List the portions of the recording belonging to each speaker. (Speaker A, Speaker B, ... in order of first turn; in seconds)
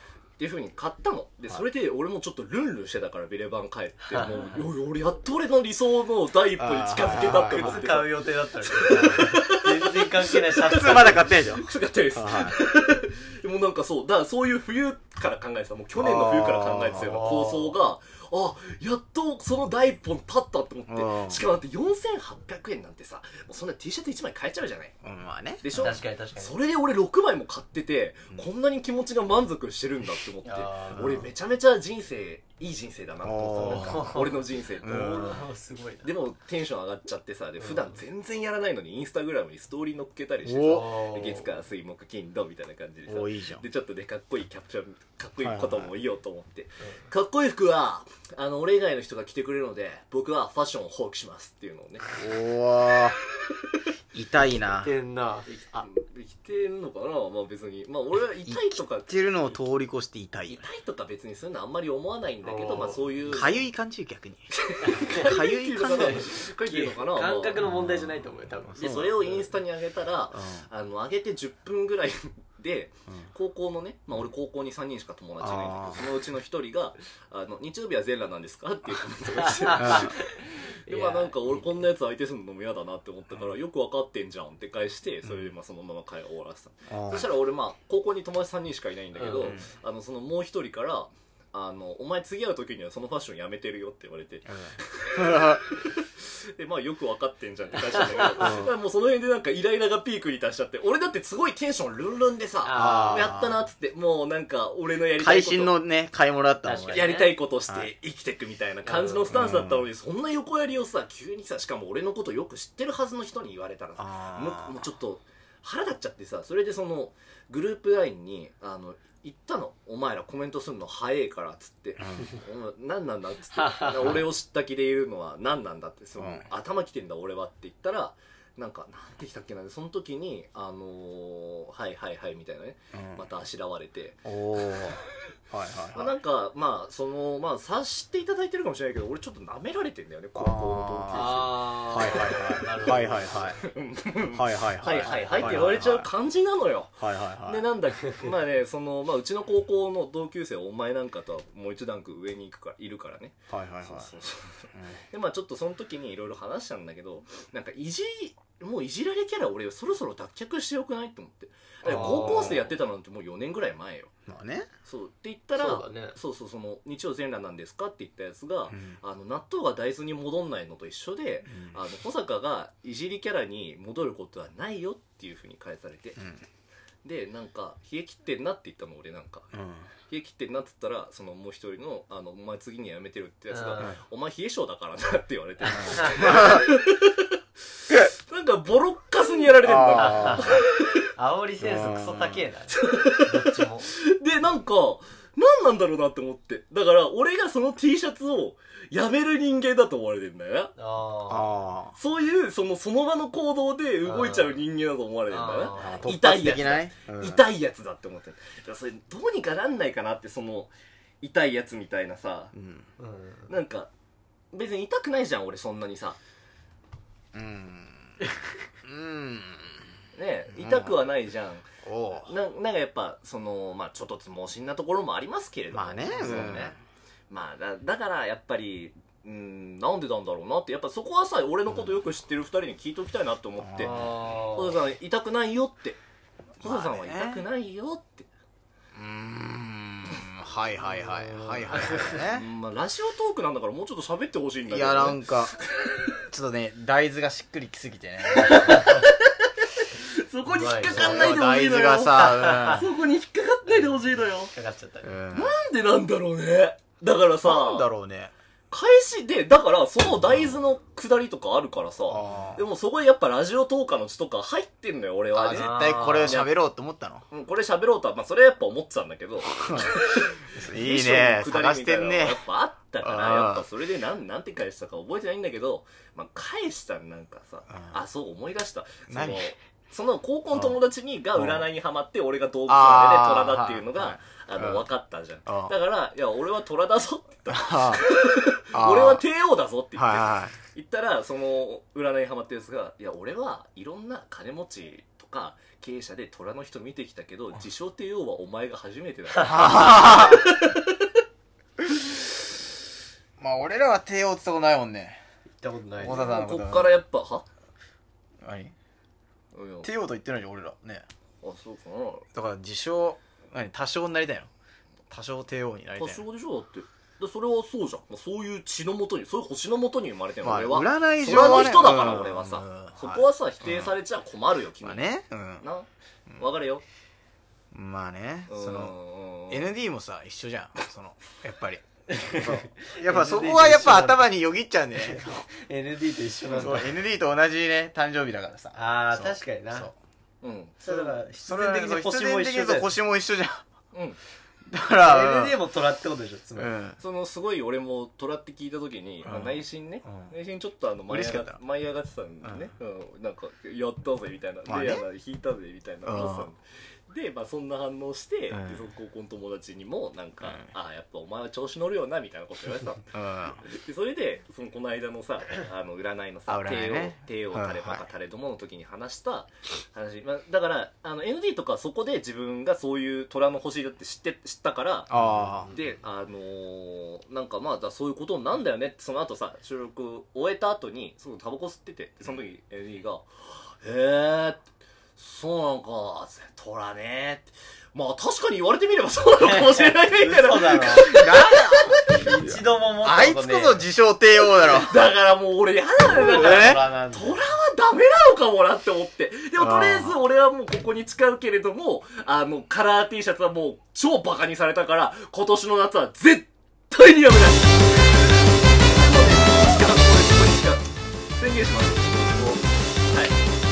Speaker A: 0.4-24.9, 25.6-35.3, 36.0-52.0, 55.5-59.2, 60.5-63.7, 64.6-67.6, 68.8-80.2, 80.9-105.8, 106.9-134.9, 135.9-164.1, 164.8-176.2, 177.0-179.5, 180.1-187.3, 187.9-190.8, 192.8-200.7, 201.9-210.7, 211.2-212.5, 213.5-213.9, 214.5-216.2, 220.1-226.7, 227.3-234.0, 234.5-236.0, 236.6-238.3, 242.2-246.1, 248.3-254.5, 255.3-257.9, 258.7-266.6, 267.3-301.0, 306.1-307.5, 309.5-309.9, 311.4-312.3, 316.0-326.8, 328.5-329.7, 340.4-341.1, 343.9-344.2, 347.0-363.1, 363.6-375.1, 375.7-391.6, 394.6-408.2, 408.8-413.4
Speaker B: 4.1-4.6, 7.1-11.3, 16.9-17.8, 25.8-26.6, 30.4-31.1, 33.6-36.1, 37.6-38.0, 40.6-41.5, 54.4-55.9, 62.4-63.1, 64.9-69.5, 79.4-81.6, 89.2-89.6, 97.8-98.5, 102.6-103.3, 106.6-107.3, 108.8-109.4, 123.6-124.0, 141.1-143.5, 145.0-145.6, 161.9-162.7, 165.6-166.2, 183.5-184.0, 185.8-186.4, 189.9-190.6, 191.2-193.9, 200.8-201.6, 204.1-204.6, 205.3-206.1, 213.0-213.6, 226.1-226.7, 233.8-234.8, 240.8-242.3, 250.5-251.4, 252.1-252.9, 253.7-255.1, 265.5-266.4, 305.6-306.4, 332.1-334.4, 335.0-337.0, 338.7-339.9, 340.8-343.0, 345.0-346.8, 389.4-391.2, 392.1-393.9, 396.1-397.4
Speaker C: 6.6-7.8, 8.9-9.3, 10.6-12.6, 16.0-17.1, 20.9-21.4, 25.0-26.0, 30.9-31.3, 33.2-34.1, 34.8-35.4, 40.5-40.8, 43.1-43.6, 45.4-45.9, 52.1-53.2, 54.1-54.9, 58.5-60.6, 63.2-64.5, 65.0-66.3, 67.6-69.1, 70.3-70.7, 75.4-76.1, 79.8-80.1, 85.2-85.5, 86.9-87.3, 89.4-89.7, 94.5-95.7, 98.4-98.7, 102.7-103.6, 105.2-107.1, 107.6-107.9, 109.3-109.9, 114.0-114.9, 122.0-122.3, 126.2-126.5, 132.9-133.2, 134.2-136.2, 140.3-143.6, 144.3-146.1, 147.0-147.6, 153.5-154.1, 154.8-155.0, 161.9-162.6, 164.3-164.7, 168.7-169.0, 171.5-171.8, 176.2-176.4, 179.5-179.9, 185.7-186.7, 189.6-190.6, 191.6-192.4, 201.3-201.9, 205.8-207.4, 212.5-212.9, 217.3-218.2, 218.8-219.8, 220.5-221.0, 221.8-222.3, 225.7-226.8, 231.7-232.0, 233.6-234.2, 236.6-237.4, 238.9-242.5, 244.7-245.6, 246.3-248.8, 250.9-252.9, 255.0-255.6, 257.4-258.3, 262.1-262.6, 265.3-267.2, 269.6-269.9, 270.5-272.4, 273.0-273.7, 277.7-278.0, 279.1-279.5, 280.5-280.8, 281.4-281.7, 282.7-284.9, 285.5-285.8, 287.5-288.0, 288.7-289.2, 289.9-290.6, 299.4-300.5, 303.4-305.2, 306.0-307.0, 308.4-308.7, 309.8-311.1, 312.3-314.5, 315.1-316.2, 320.4-323.9, 324.8-325.7, 327.7-328.9, 329.5-335.4, 336.5-339.9, 341.4-343.6, 344.7-345.7, 346.6-347.0, 349.2-350.3, 351.1-351.6, 352.4-352.7, 354.7-355.0, 356.0-356.5, 358.5-358.8, 360.4-360.7, 363.1-363.6, 366.5-368.1, 375.1-375.8, 391.1-395.1, 396.1-396.9, 399.6-400.2